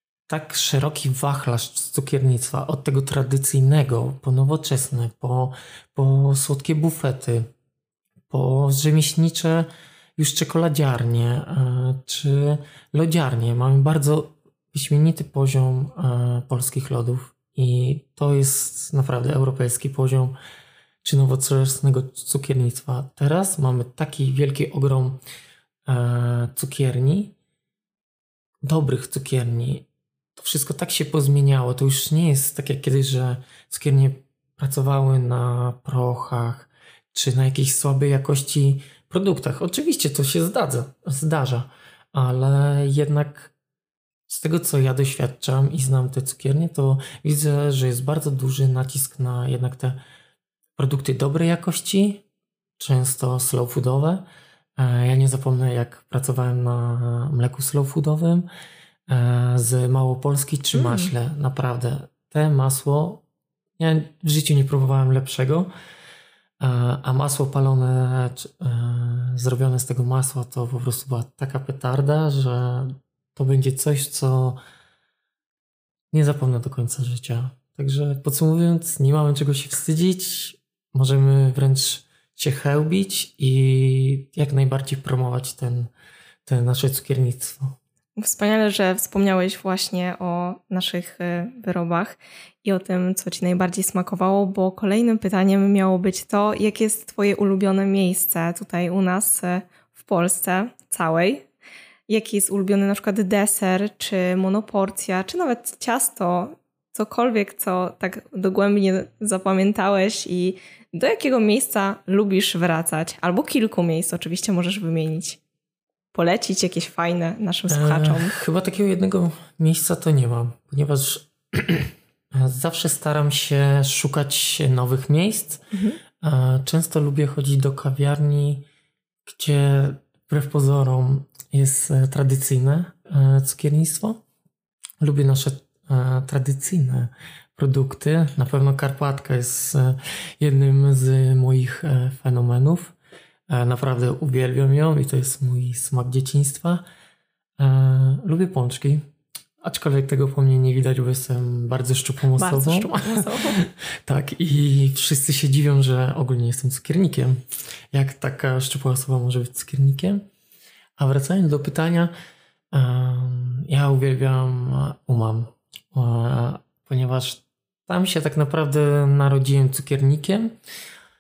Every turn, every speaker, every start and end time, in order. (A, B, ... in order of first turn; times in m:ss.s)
0:00.3-0:07.5 A
0:08.3-0:20.3 A
0:21.0-0:25.2 A
0:25.9-0:27.4 A
0:28.6-0:29.9 A
0:30.4-0:43.5 A
0:44.3-0:50.0 A
0:50.8-0:52.2 A
0:52.8-0:54.2 A
0:54.8-0:58.5 A
0:59.1-1:03.2 A
1:00.7-1:01.1 B
1:03.8-1:05.7 A
1:06.6-1:14.6 A
1:16.1-1:25.9 A
1:26.4-1:27.8 A
1:28.2-1:41.5 B
1:42.1-1:55.4 B
1:56.1-1:58.4 B
1:57.7-2:05.6 A
2:05.7-2:06.0 B
2:06.2-2:08.6 A
2:09.3-2:14.2 A
2:15.0-2:22.9 A
2:23.5-2:26.8 A
2:27.6-2:29.0 A
2:29.6-2:37.4 A
2:32.4-2:33.6 B
2:37.9-2:40.2 A
2:41.0-2:42.1 A
2:42.7-2:50.6 A